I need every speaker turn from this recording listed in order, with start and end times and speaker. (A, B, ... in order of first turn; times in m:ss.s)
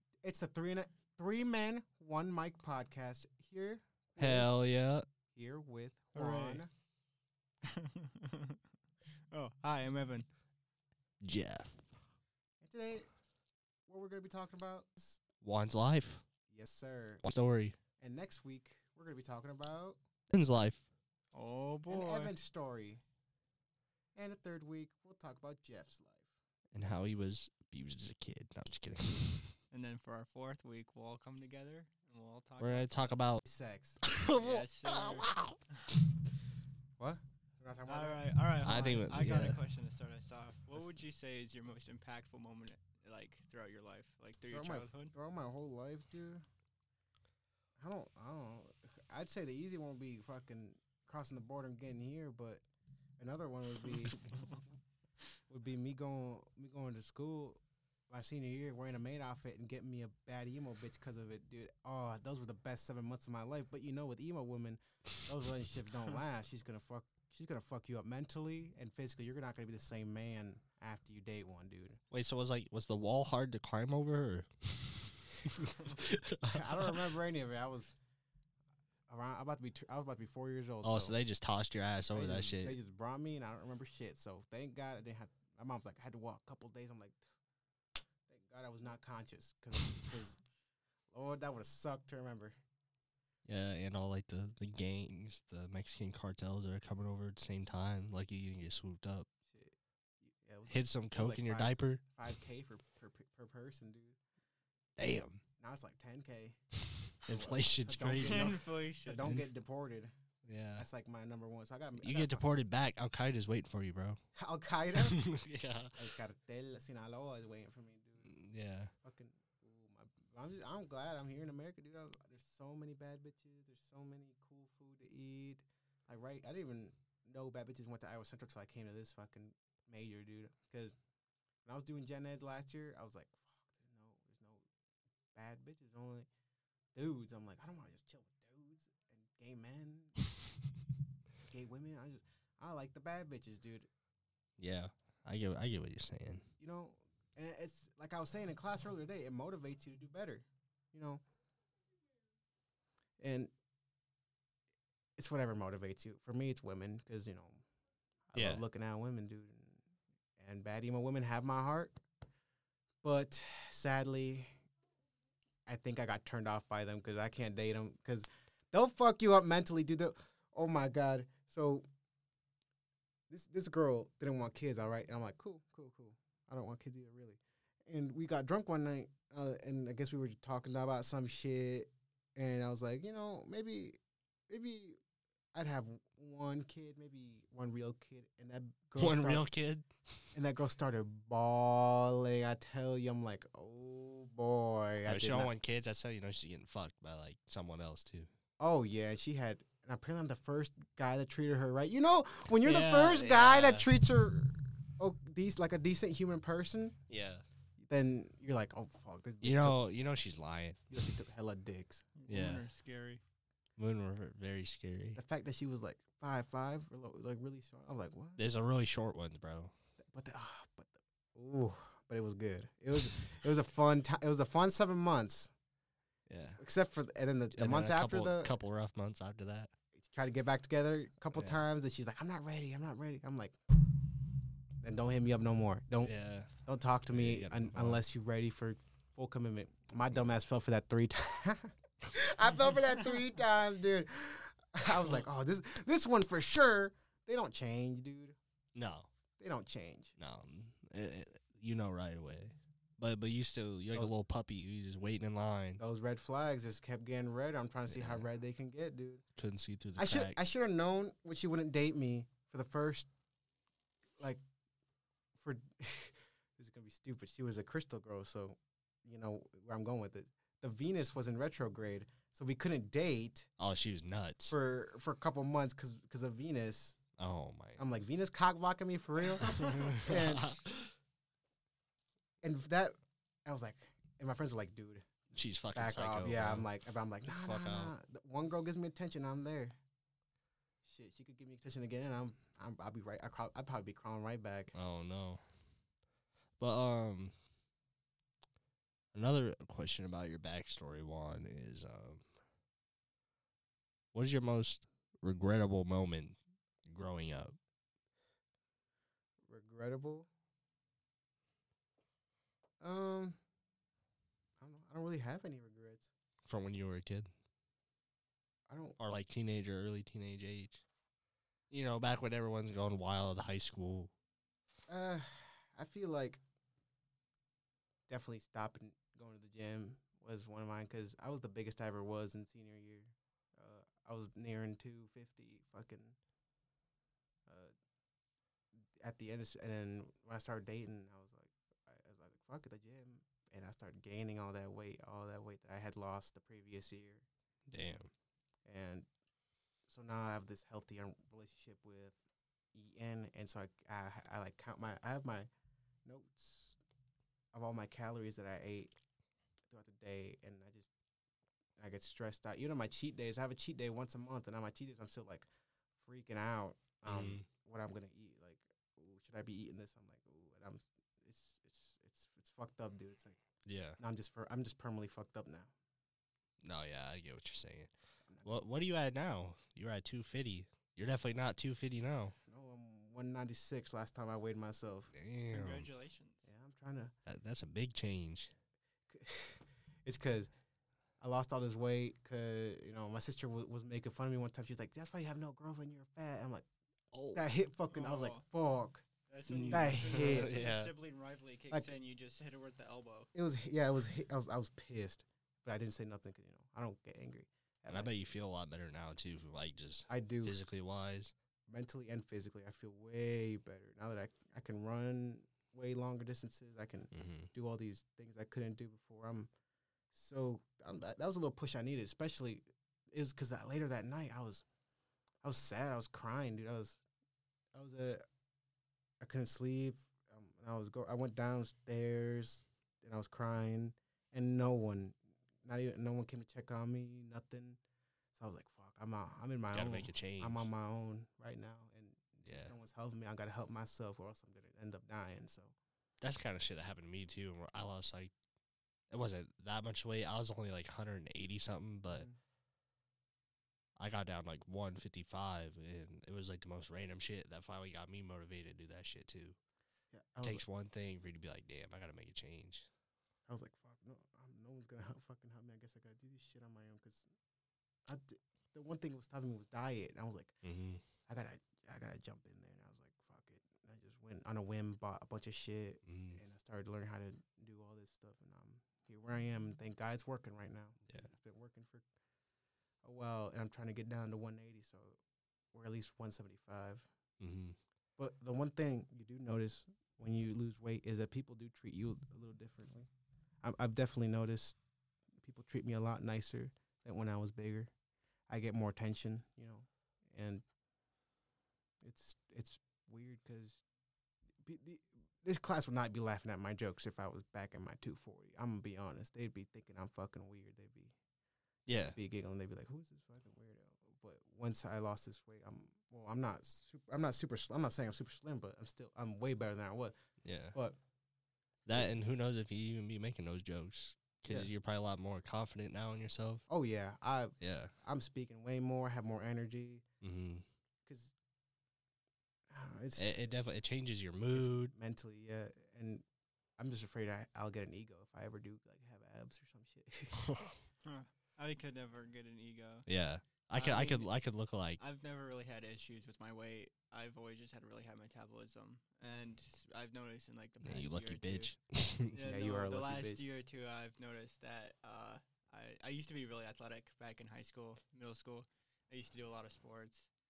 0:00.2-0:04.5 A
0:04.2-0:05.0 B
0:05.3-0:06.7 A
0:06.1-0:06.6 C
0:07.7-0:08.6 C
0:09.3-0:10.3 C
0:11.2-0:11.9 B
0:12.6-0:13.1 A
0:13.9-0:15.2 A
0:15.4-0:16.2 B
0:16.5-0:17.2 A
0:17.2-0:17.8 B
0:18.0-0:20.0 A
0:20.3-0:20.8 B
0:21.3-0:22.3 C
0:21.9-0:23.0 A
0:24.1-0:26.2 A
0:26.7-0:29.5 B
0:29.7-0:33.0 C
0:32.6-0:33.4 B
0:33.4-0:34.0 A
0:34.0-0:35.6 B
0:34.3-0:35.9 C
0:37.0-0:39.1 A
0:37.8-0:45.1 C
0:38.6-0:39.6 B
0:44.5-0:46.4 A
0:47.8-0:52.6 A
0:53.2-0:54.6 A
0:55.5-1:12.0 A
1:12.1-1:15.2 B
1:16.0-1:17.0 B
1:16.5-1:18.0 A
1:19.1-1:21.2 A
1:20.8-1:22.8 B
1:22.1-1:27.2 A
1:28.3-1:30.4 A
1:31.1-1:32.6 A
1:33.4-1:39.3 B
1:39.5-1:44.2 A
1:40.7-1:42.2 B
1:45.0-1:45.4 B
1:45.6-1:46.6 A
1:47.2-1:48.6 B
1:47.3-1:50.1 A
1:48.2-1:49.3 C
1:50.4-1:50.8 B
1:50.8-1:52.6 A
1:52.0-1:54.2 B
1:54.4-1:55.2 A
1:55.0-1:56.0 B
1:56.0-1:58.3 A
1:58.2-1:58.9 B
1:59.0-2:11.0 A
2:11.6-2:14.6 A
2:15.3-2:16.3 A
2:16.9-2:20.2 A
2:21.4-2:23.9 A
2:24.6-2:26.4 B
2:26.6-2:31.2 A
2:33.2-2:33.5 A
2:35.2-2:37.6 A
2:38.3-2:39.8 A
2:38.4-2:38.6 B
2:40.4-2:42.0 A
2:43.0-2:44.5 A
2:45.6-2:51.8 A
2:53.3-3:04.0 A
3:04.5-3:05.0 A
3:05.5-3:09.5 A
3:09.0-3:10.2 B
3:10.3-3:15.5 A
3:15.0-3:18.3 B
3:18.6-3:27.0 A
3:22.6-3:23.9 B
3:27.1-3:27.4 B
3:27.8-3:29.8 A
3:29.4-3:31.0 B
3:30.9-3:32.0 A
3:32.2-3:33.2 C
3:32.3-3:32.6 B
3:33.8-3:35.2 B
3:35.2-3:38.4 A
3:38.4-3:39.7 B
3:40.0-3:45.5 A
3:46.3-3:46.6 B
3:46.6-3:48.5 A
3:47.5-3:49.7 B
3:49.9-3:53.6 A
3:51.3-3:51.6 B
3:54.8-3:56.1 A
3:56.0-3:56.5 B
3:56.6-4:08.4 A
3:57.1-3:58.0 B
4:08.7-4:09.1 B
4:09.4-4:10.1 A
4:10.2-4:15.8 B
4:15.8-4:19.2 A
4:17.9-4:18.2 B
4:19.4-4:20.4 B
4:20.0-4:23.1 A
4:25.4-4:33.5 A
4:33.6-4:34.6 B
4:34.5-4:37.0 A
4:37.2-4:37.8 B
4:37.8-4:40.6 A
4:39.4-4:40.9 B
4:42.4-4:42.9 A
4:43.4-4:45.1 A
4:45.3-4:46.7 B
4:45.7-4:49.8 A
4:47.2-4:47.9 B
4:50.8-4:54.7 A
4:54.7-4:55.4 B
4:56.6-4:57.3 B
4:59.1-5:02.2 B
5:04.1-5:07.6 B
5:09.5-5:10.3 A
5:12.8-5:13.4 A
5:14.6-5:16.1 A
5:16.4-5:17.3 B
5:18.7-5:19.0 A
5:19.0-5:20.8 B
5:21.7-5:24.1 B
5:24.9-5:26.4 A
5:28.1-5:36.2 A
5:37.5-5:37.7 A
5:39.0-5:47.2 A
5:47.7-5:48.1 B
5:48.6-5:49.1 A
5:49.9-5:52.2 A
5:52.7-5:55.5 A
5:56.0-5:56.8 A
5:57.5-5:58.9 A
5:59.7-6:00.9 A
6:01.8-6:05.5 A
6:06.0-6:13.4 A
6:07.0-6:07.5 B
6:13.6-6:14.0 B
6:14.0-6:15.7 A
6:16.6-6:17.9 B
6:18.2-6:18.6 A
6:18.4-6:22.3 B
6:22.4-6:25.1 A
6:25.1-6:25.9 B
6:25.5-6:26.4 C
6:26.4-6:27.1 A
6:27.2-6:28.5 B
6:29.1-6:30.5 A
6:31.2-6:36.6 A
6:37.1-6:37.4 B
6:37.3-6:39.1 A
6:37.9-6:38.4 C
6:39.3-6:43.3 C
6:39.5-6:40.9 B
6:39.6-6:40.7 A
6:43.3-6:48.2 A
6:47.9-6:51.3 B
6:50.1-6:50.6 A
6:51.7-6:59.5 A
6:57.1-6:57.5 B
7:00.1-7:04.6 A
7:05.4-7:07.0 A
7:07.7-7:08.2 A
7:09.2-7:17.8 A
7:18.3-7:25.7 A
7:19.7-7:20.7 B
7:22.4-7:22.7 B
7:26.2-7:28.3 B
7:29.1-7:32.3 B
7:32.1-7:32.4 A
7:34.0-7:39.6 B
7:40.1-7:40.6 A
7:40.4-7:42.9 B
7:43.5-7:47.3 A
7:48.1-7:50.6 A
7:50.6-7:51.0 B
7:51.2-8:02.0 A
7:56.0-7:56.4 B
8:03.0-8:05.2 A
8:05.7-8:07.1 A
8:07.4-8:07.8 B
8:08.2-8:13.1 A
8:13.6-8:14.8 A
8:15.4-8:17.9 A
8:18.5-8:20.6 A
8:22.0-8:23.8 A
8:24.6-8:31.1 A
8:31.8-8:32.2 B
8:32.1-8:40.2 A
8:40.4-8:40.7 B
8:41.8-8:46.6 B
8:44.4-8:44.7 A
8:46.7-8:50.0 A
8:47.6-8:47.9 B
8:50.2-8:50.6 B
8:51.0-8:51.3 A
8:52.7-8:53.8 A
8:53.2-8:54.9 B
8:54.5-8:56.2 A
8:56.8-9:00.5 A
9:01.0-9:03.0 C
9:03.1-9:05.0 B
9:03.7-9:04.3 C
9:05.0-9:11.7 C
9:10.8-9:12.4 B
9:12.3-9:20.3 C
9:12.5-9:13.4 A